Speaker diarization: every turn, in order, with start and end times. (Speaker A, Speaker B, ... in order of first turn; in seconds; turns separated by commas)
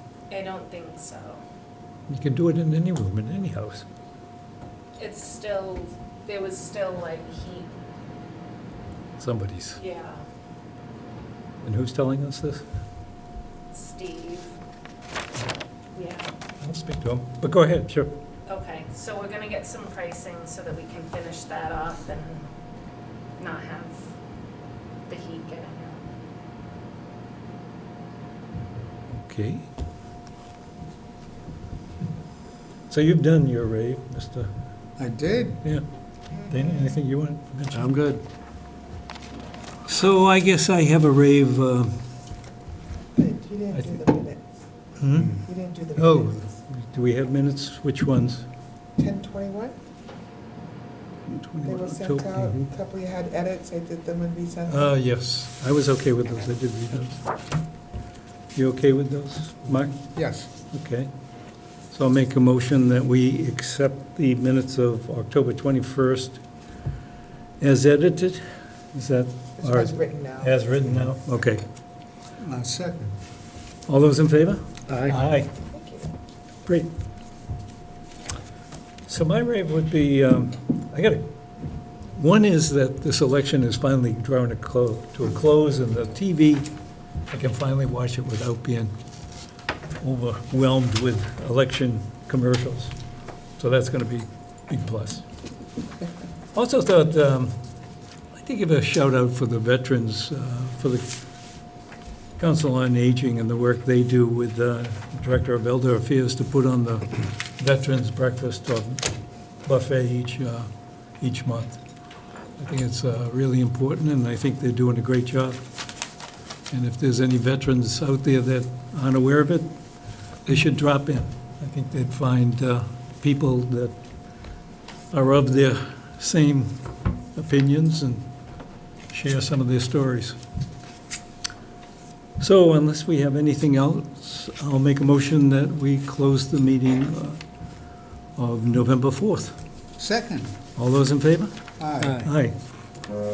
Speaker A: 0.3-1.4, Speaker B: 2.1-3.9, Speaker A: 5.0-7.7, Speaker B: 9.2-9.8, Speaker A: 9.8-10.2, Speaker B: 11.6-12.6, Speaker A: 13.7-14.6, Speaker A: 15.9-16.3, Speaker B: 16.6-18.1, Speaker A: 18.5-22.5, Speaker A: 23.4-24.1, Speaker A: 25.1-26.0, Speaker B: 29.1-29.7, Speaker B: 32.9-34.5, Speaker C: 35.0-35.6, Speaker B: 36.4-38.0, Speaker C: 37.7-38.2, Speaker B: 39.9-42.1, Speaker D: 43.1-44.5, Speaker B: 43.7-44.0, Speaker B: 45.0-48.5, Speaker D: 45.3-46.5, Speaker D: 49.0-49.8, Speaker B: 51.3-52.7, Speaker D: 51.6-54.9, Speaker B: 54.7-57.3, Speaker B: 58.5-61.1, Speaker C: 60.1-60.5, Speaker B: 61.9-66.4, Speaker B: 67.6-71.6, Speaker D: 69.6-70.6, Speaker C: 72.4-73.2, Speaker B: 73.9-75.5, Speaker C: 74.9-75.2, Speaker D: 75.7-76.1, Speaker B: 79.1-81.3, Speaker B: 82.1-86.7, Speaker B: 87.3-88.9, Speaker B: 90.0-92.9, Speaker B: 93.6-95.2, Speaker B: 96.5-97.5, Speaker B: 98.3-101.1, Speaker B: 102.4-109.1, Speaker B: 109.6-111.8, Speaker B: 112.6-115.7, Speaker B: 116.7-119.7, Speaker B: 120.5-124.0, Speaker B: 125.1-128.2, Speaker B: 129.1-130.4, Speaker B: 132.4-137.4, Speaker B: 138.3-139.6, Speaker C: 140.0-140.5, Speaker B: 140.7-142.6, Speaker C: 141.8-142.3